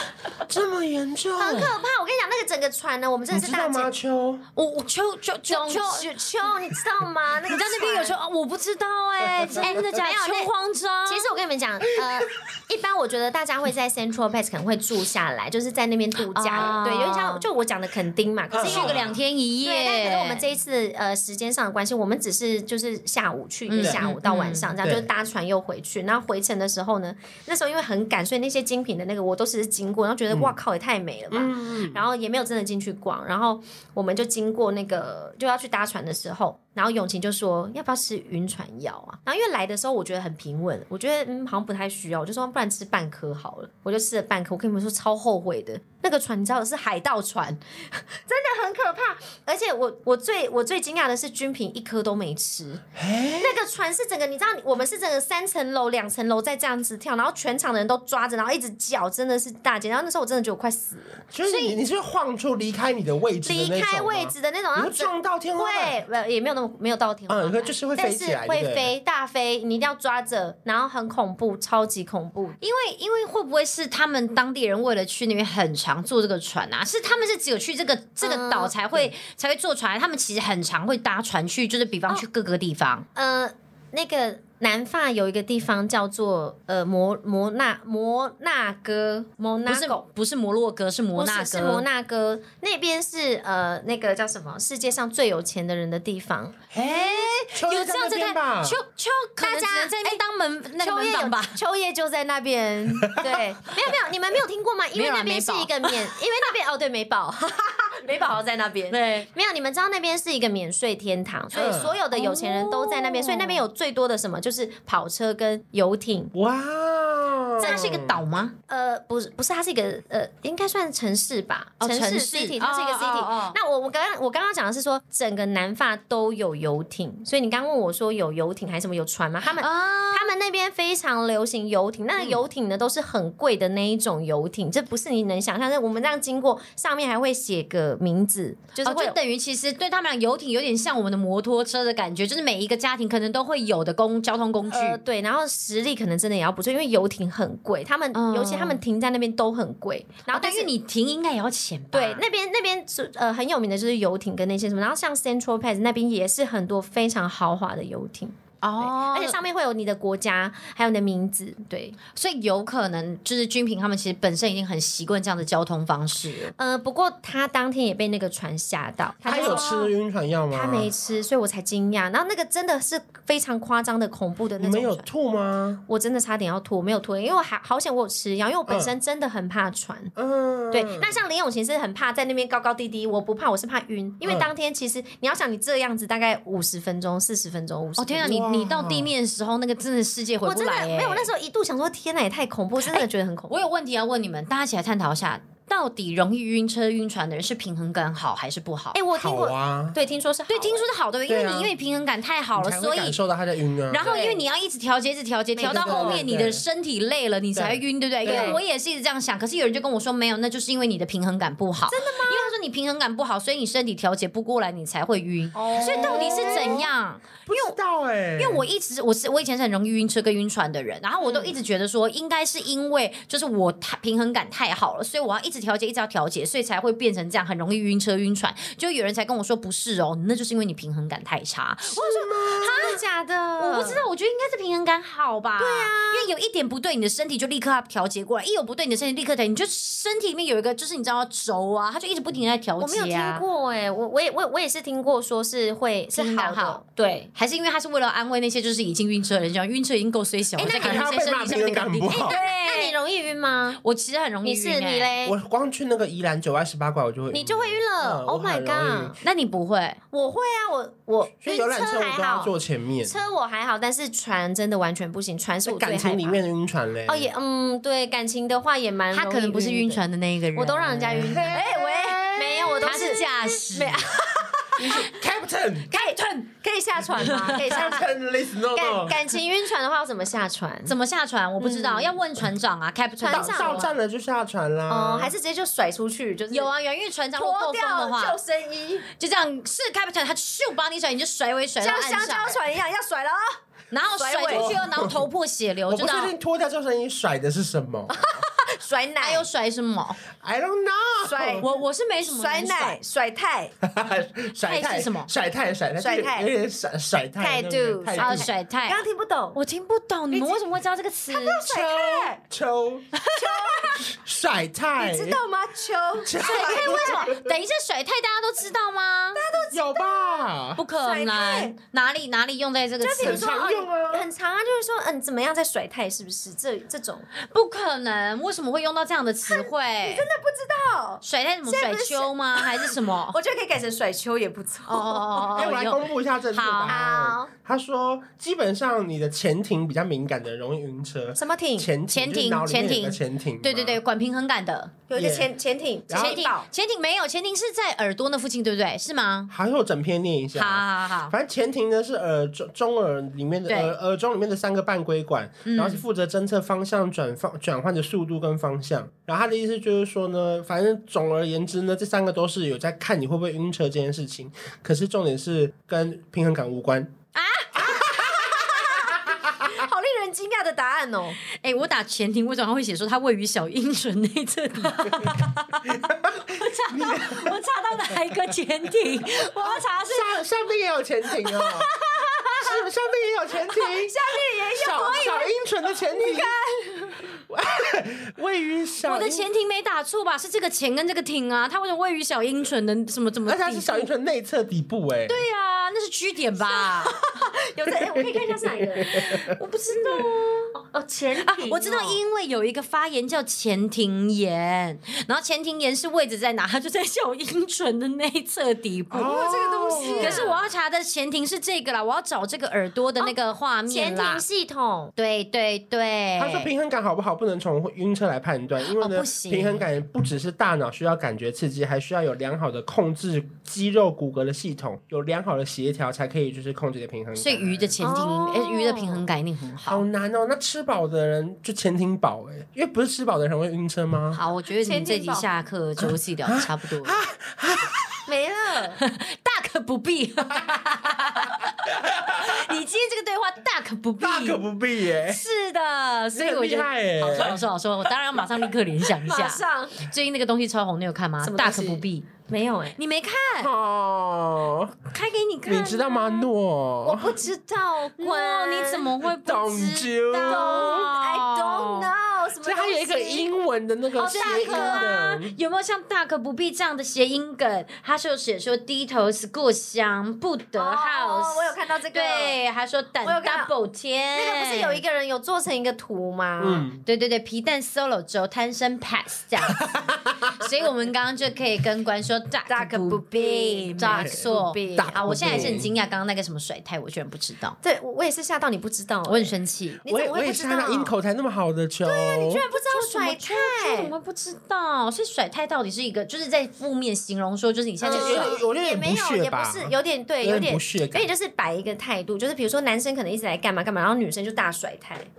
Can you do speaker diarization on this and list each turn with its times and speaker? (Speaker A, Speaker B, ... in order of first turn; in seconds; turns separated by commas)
Speaker A: 0.5-1.7, Speaker B: 1.4-3.9, Speaker A: 3.3-4.4, Speaker C: 4.6-6.1, Speaker B: 5.5-8.2, Speaker C: 7.5-11.3, Speaker B: 9.4-10.5, Speaker B: 11.1-19.1, Speaker C: 16.3-17.4, Speaker A: 18.5-19.2, Speaker C: 18.5-20.5, Speaker B: 19.6-52.8, Speaker C: 23.7-24.7, Speaker A: 23.8-24.0, Speaker A: 24.8-25.1, Speaker A: 30.3-30.6, Speaker A: 31.3-32.0, Speaker A: 53.0-53.5, Speaker B: 53.4-61.2, Speaker A: 61.3-66.0, Speaker C: 61.5-61.8, Speaker B: 63.4-72.6, Speaker A: 67.3-68.9, Speaker C: 72.6-83.1, Speaker B: 78.2-79.1, Speaker B: 83.1-90.0, Speaker C: 89.7-91.9, Speaker B: 91.1-96.6, Speaker A: 96.7-98.8, Speaker C: 96.8-101.6, Speaker B: 99.4-100.2, Speaker B: 100.8-116.3, Speaker A: 103.0-103.4, Speaker C: 104.9-106.0, Speaker C: 108.9-109.3, Speaker C: 111.5-113.6, Speaker A: 111.5-112.0, Speaker A: 116.3-118.2, Speaker B: 117.6-118.0, Speaker C: 117.6-118.5, Speaker B: 118.7-139.2, Speaker C: 121.8-123.6, Speaker C: 129.6-130.3, Speaker C: 132.2-132.4, Speaker C: 138.8-145.0, Speaker B: 144.7-150.7, Speaker C: 148.1-148.8, Speaker C: 150.3-152.2, Speaker B: 151.9-162.0, Speaker C: 158.6-159.4, Speaker C: 162.1-166.5, Speaker B: 166.6-169.9, Speaker C: 169.2-169.9, Speaker A: 169.2-170.9, Speaker B: 170.5-175.1, Speaker A: 174.6-175.8, Speaker B: 175.9-180.1, Speaker A: 178.7-178.9, Speaker A: 180.1-181.2, Speaker B: 180.7-188.3, Speaker A: 184.2-184.5, Speaker C: 188.0-191.3, Speaker A: 188.2-189.1, Speaker B: 190.4-193.6, Speaker C: 192.8-199.0, Speaker B: 198.9-200.9, Speaker A: 199.1-200.0, Speaker C: 200.5-203.2, Speaker A: 201.3-201.7, Speaker A: 202.5-204.2, Speaker C: 203.9-217.2, Speaker B: 204.0-204.4, Speaker B: 205.5-206.3, Speaker A: 205.6-206.6, Speaker A: 207.5-208.6, Speaker B: 208.2-208.6, Speaker B: 211.9-212.5, Speaker B: 215.5-216.9, Speaker A: 215.8-216.9, Speaker A: 217.5-218.7, Speaker C: 218.4-233.0, Speaker B: 221.2-221.6, Speaker A: 232.0-233.0, Speaker B: 232.0-234.0, Speaker C: 233.6-243.4, Speaker B: 235.6-236.3, Speaker B: 242.8-247.3, Speaker C: 246.1-246.8, Speaker C: 247.3-253.0, Speaker B: 250.6-251.1, Speaker A: 250.6-252.4, Speaker B: 252.2-253.8, Speaker C: 253.7-255.1, Speaker B: 254.4-255.3, Speaker A: 255.2-259.1, Speaker B: 257.3-259.2, Speaker C: 259.2-260.0, Speaker B: 260.1-262.5, Speaker A: 261.4-263.2, Speaker B: 263.1-266.4, Speaker A: 265.6-267.3, Speaker B: 267.1-270.0, Speaker C: 269.1-274.0, Speaker B: 270.5-274.8, Speaker A: 271.1-271.7, Speaker A: 274.8-275.9, Speaker C: 275.9-276.5, Speaker B: 275.9-278.1, Speaker C: 277.1-278.0, Speaker A: 277.2-279.2, Speaker B: 278.7-280.9, Speaker C: 280.9-283.9, Speaker B: 281.6-282.2, Speaker B: 283.2-283.9, Speaker A: 283.2-285.3, Speaker B: 284.9-286.7, Speaker C: 286.5-288.4, Speaker B: 287.4-289.1, Speaker C: 289.2-292.6, Speaker B: 291.8-293.6, Speaker C: 293.9-296.3, Speaker B: 294.1-295.1, Speaker A: 294.4-295.2, Speaker A: 295.9-298.4, Speaker B: 298.1-299.5, Speaker C: 299.2-300.2, Speaker A: 300.4-301.7, Speaker B: 301.2-303.7, Speaker C: 301.6-303.0, Speaker A: 303.8-308.5, Speaker C: 304.6-305.3, Speaker B: 306.0-306.5, Speaker B: 307.4-309.6, Speaker C: 308.1-309.0, Speaker C: 309.5-311.7, Speaker B: 310.3-310.6, Speaker B: 311.3-312.4, Speaker A: 311.6-313.1, Speaker B: 313.3-314.1, Speaker A: 314.0-315.4, Speaker B: 315.0-317.3, Speaker A: 316.2-317.4, Speaker C: 316.4-319.4, Speaker B: 319.4-321.7, Speaker A: 319.7-320.8, Speaker C: 320.8-323.6, Speaker B: 323.0-327.3, Speaker A: 323.2-324.2, Speaker C: 327.5-330.3, Speaker B: 329.5-335.8, Speaker C: 331.2-333.4, Speaker C: 334.9-337.1, Speaker A: 335.5-344.0, Speaker B: 336.9-337.5, Speaker B: 341.4-341.9, Speaker C: 342.1-345.0, Speaker B: 345.1-346.7, Speaker A: 345.1-345.5, Speaker A: 346.1-346.4, Speaker C: 346.1-349.5, Speaker A: 349.5-367.1, Speaker C: 350.5-351.3, Speaker C: 353.7-354.0, Speaker C: 355.6-356.0, Speaker C: 367.4-368.2, Speaker A: 367.8-368.7, Speaker B: 368.2-371.4, Speaker C: 371.5-380.2, Speaker A: 376.1-377.6, Speaker B: 379.6-380.2, Speaker A: 380.0-381.9, Speaker B: 381.6-382.8, Speaker A: 382.6-384.2, Speaker B: 383.7-387.3, Speaker A: 384.7-386.5, Speaker A: 387.5-389.5, Speaker C: 389.0-394.1, Speaker A: 393.5-395.4, Speaker C: 395.3-397.1, Speaker B: 396.6-399.1, Speaker A: 398.9-399.3, Speaker C: 399.0-400.7, Speaker B: 400.0-402.2, Speaker C: 401.4-414.4, Speaker A: 409.1-410.5, Speaker B: 409.1-410.6, Speaker B: 413.2-415.1, Speaker C: 415.1-416.7, Speaker A: 416.4-428.0, Speaker C: 418.9-419.9, Speaker C: 427.4-430.0, Speaker B: 428.0-429.2, Speaker A: 429.9-434.4, Speaker C: 434.3-437.2, Speaker B: 434.7-435.5, Speaker A: 436.4-438.1, Speaker B: 438.2-439.0, Speaker C: 439.0-444.6, Speaker A: 444.2-445.4, Speaker C: 445.2-452.3, Speaker A: 446.3-447.6, Speaker B: 449.2-450.1, Speaker B: 451.4-453.0, Speaker C: 453.0-453.7, Speaker A: 453.6-455.0, Speaker C: 455.1-456.5, Speaker A: 455.6-457.4, Speaker B: 457.0-459.1, Speaker C: 458.2-462.1, Speaker A: 459.2-461.1, Speaker B: 460.3-463.6, Speaker A: 462.6-465.6, Speaker B: 464.1-465.2, Speaker C: 464.2-475.0, Speaker B: 470.8-472.6, Speaker B: 473.2-473.7, Speaker B: 474.3-476.9, Speaker A: 476.6-477.0, Speaker C: 477.0-487.8, Speaker B: 482.7-485.9, Speaker A: 484.0-485.9, Speaker B: 487.8-491.1, Speaker C: 489.2-490.0, Speaker A: 490.0-492.6, Speaker B: 492.0-494.1, Speaker C: 492.9-498.6, Speaker B: 498.0-505.3, Speaker A: 498.1-501.3